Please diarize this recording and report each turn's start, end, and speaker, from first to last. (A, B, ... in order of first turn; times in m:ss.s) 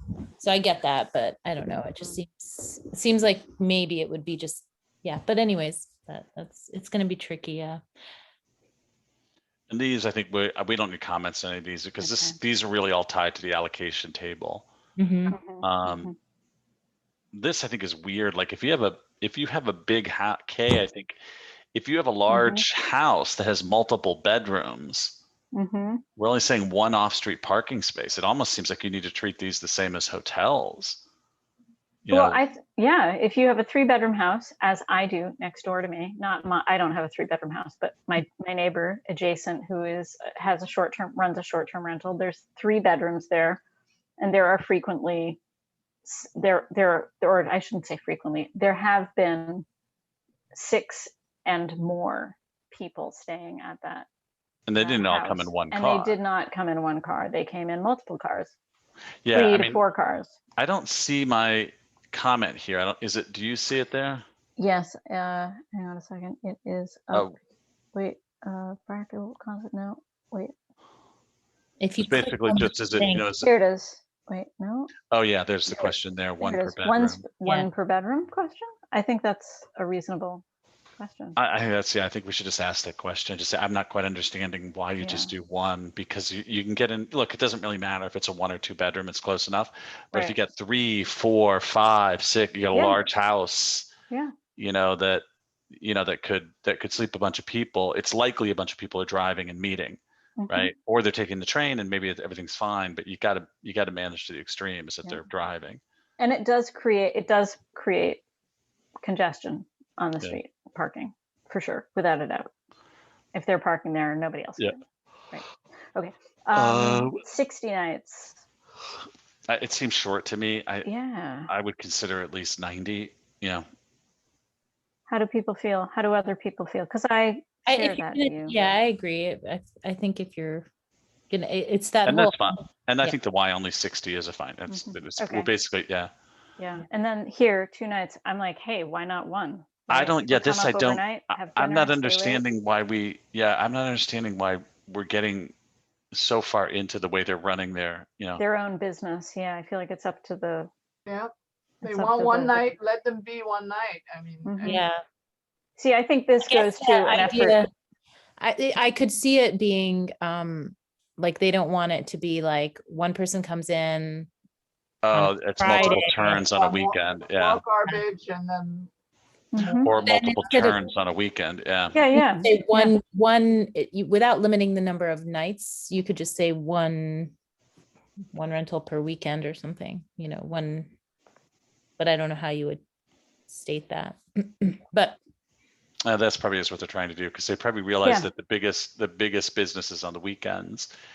0:00.4-0:07.8 A
0:09.7-0:14.7 B
0:12.0-0:12.4 C
0:15.0-0:15.4 A
0:15.3-0:16.2 C
0:15.6-0:16.1 B
0:17.3-0:21.2 B
0:21.7-0:25.2 B
0:22.3-0:22.6 C
0:25.5-0:26.0 C
0:26.2-0:31.0 B
0:32.0-0:32.4 B
0:32.1-0:43.6 C
0:44.2-0:45.4 C
0:46.0-0:49.6 C
0:50.5-0:54.1 C
0:54.7-0:56.2 B
0:54.8-0:58.5 C
0:59.2-0:59.8 B
0:59.3-1:00.4 C
1:00.6-1:04.2 B
1:04.6-1:07.3 C
1:07.9-1:10.5 C
1:11.8-1:13.3 A
1:12.0-1:13.5 B
1:13.4-1:14.9 C
1:15.1-1:17.3 B
1:15.7-1:20.4 C
1:17.4-1:17.7 A
1:21.0-1:21.4 C
1:21.4-1:33.9 B
1:25.0-1:25.3 C
1:32.7-1:33.0 C
1:34.6-1:45.8 B
1:40.4-1:40.7 C
1:46.2-1:48.2 C
1:49.0-1:52.5 C
1:53.3-1:54.8 C
1:55.3-1:58.4 C
1:56.5-1:57.2 B
1:59.5-2:00.9 B
2:00.8-2:01.5 C
2:01.5-2:03.7 B
2:05.1-2:08.6 C
2:07.7-2:10.7 A
2:11.3-2:13.2 A
2:12.0-2:16.1 B
2:14.7-2:15.5 C
2:16.6-2:22.4 C
2:19.9-2:25.5 B
2:26.1-2:28.4 B
2:28.4-2:30.7 C
2:31.1-2:34.8 D
2:31.8-2:32.7 C
2:34.4-2:34.9 C
2:34.6-2:35.0 A
2:35.8-2:37.7 C
2:36.5-2:37.7 A
2:38.4-2:44.3 A
2:45.0-2:47.6 B
2:45.1-2:46.5 A
2:46.5-2:48.9 D
2:49.5-2:49.9 C
2:49.8-2:52.0 B
2:49.9-2:50.9 A
2:51.9-2:52.9 C
2:52.2-2:57.3 A
2:58.3-3:00.9 A
3:02.0-3:02.8 A
3:03.5-3:05.2 A
3:06.0-3:10.9 B
3:08.0-3:08.3 C